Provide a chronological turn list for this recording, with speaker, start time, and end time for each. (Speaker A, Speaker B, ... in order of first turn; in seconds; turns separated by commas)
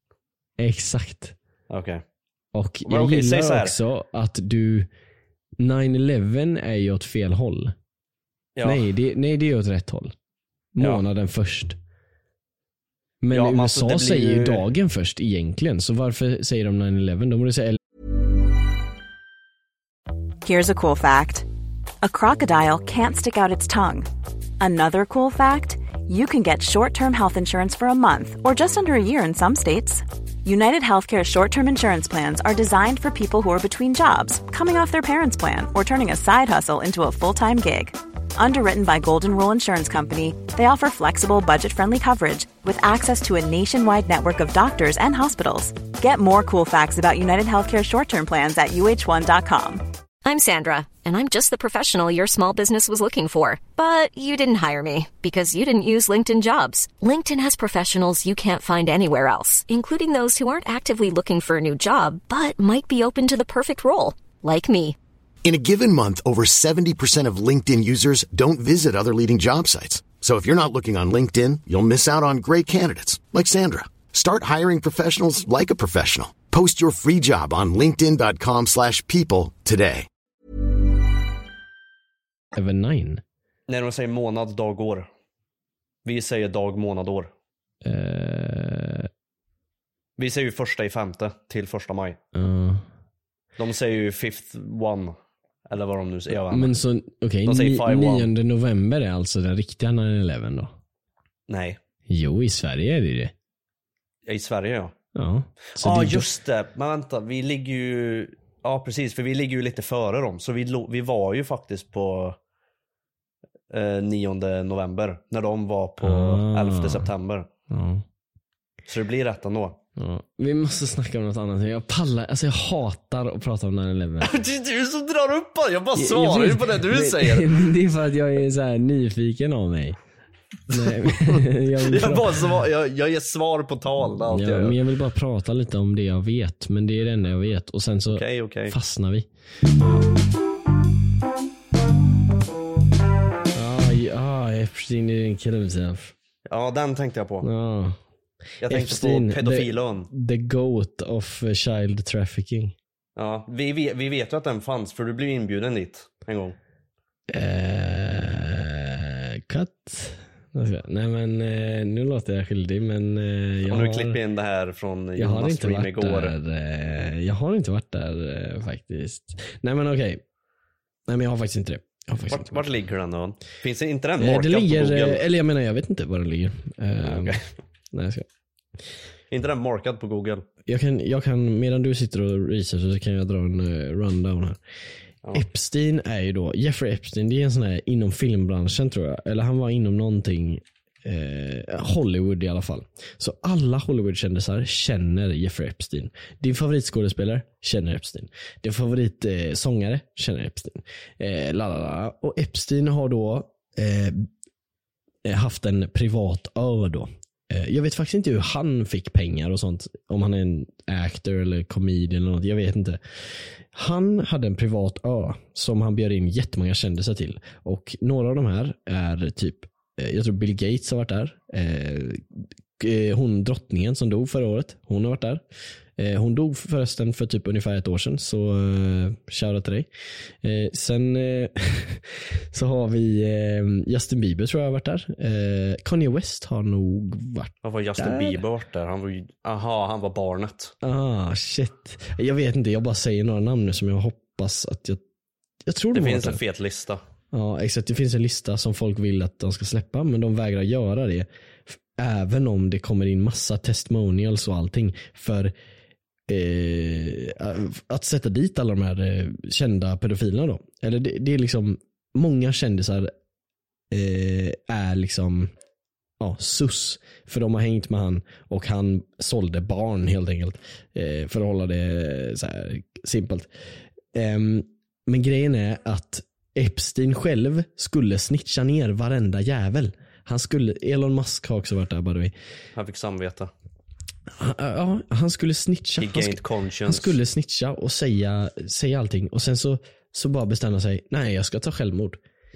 Speaker A: 0.6-1.4, Speaker B: 1.7-2.0, Speaker A: 2.5-4.9, Speaker B: 2.9-3.8, Speaker A: 5.6-7.7, Speaker B: 8.6-8.8, Speaker A: 8.6-10.1, Speaker A: 10.8-11.8, Speaker A: 13.2-17.8, Speaker B: 13.3-14.6, Speaker C: 20.4-21.5, Speaker C: 22.0-24.1, Speaker C: 24.6-49.8, Speaker D: 50.2-65.0, Speaker E: 65.5-80.1, Speaker A: 82.5-83.2, Speaker B: 83.7-85.1, Speaker B: 86.0-87.3, Speaker A: 87.8-89.1, Speaker B: 90.2-92.2, Speaker A: 92.3-92.9, Speaker B: 93.6-95.2, Speaker B: 95.7-96.7, Speaker A: 96.3-100.7, Speaker B: 97.5-98.3, Speaker B: 101.5-101.8, Speaker A: 102.1-103.3, Speaker B: 104.3-104.9, Speaker A: 105.2-106.3, Speaker B: 105.8-112.4, Speaker B: 113.7-117.5, Speaker A: 116.0-117.1, Speaker A: 117.7-118.0, Speaker B: 118.9-119.8, Speaker A: 120.0-124.3, Speaker B: 124.2-127.5, Speaker A: 126.0-130.0, Speaker A: 130.7-132.5, Speaker B: 130.8-134.8, Speaker A: 134.3-139.3, Speaker B: 138.1-138.8, Speaker A: 143.6-146.1, Speaker B: 146.5-147.5, Speaker A: 147.4-148.0, Speaker B: 148.6-150.1, Speaker A: 148.7-152.8, Speaker B: 153.2-156.6, Speaker A: 157.3-164.2, Speaker B: 163.7-166.3, Speaker A: 165.2-170.2, Speaker A: 171.1-172.7, Speaker B: 172.3-175.2, Speaker A: 174.2-177.4, Speaker B: 177.0-177.5, Speaker A: 177.9-178.3, Speaker B: 179.3-180.4, Speaker A: 180.7-184.6, Speaker A: 185.3-204.3, Speaker A: 205.2-213.0, Speaker A: 213.7-222.2, Speaker A: 222.8-225.4, Speaker A: 226.0-229.9, Speaker A: 230.4-238.4, Speaker B: 237.6-240.7, Speaker A: 240.8-245.0, Speaker A: 245.7-246.4, Speaker B: 245.9-247.0, Speaker A: 247.3-255.5, Speaker A: 256.3-263.1, Speaker A: 263.9-265.5, Speaker A: 266.2-273.5, Speaker A: 274.1-282.3, Speaker B: 282.8-283.5, Speaker A: 284.3-292.2, Speaker B: 286.0-287.2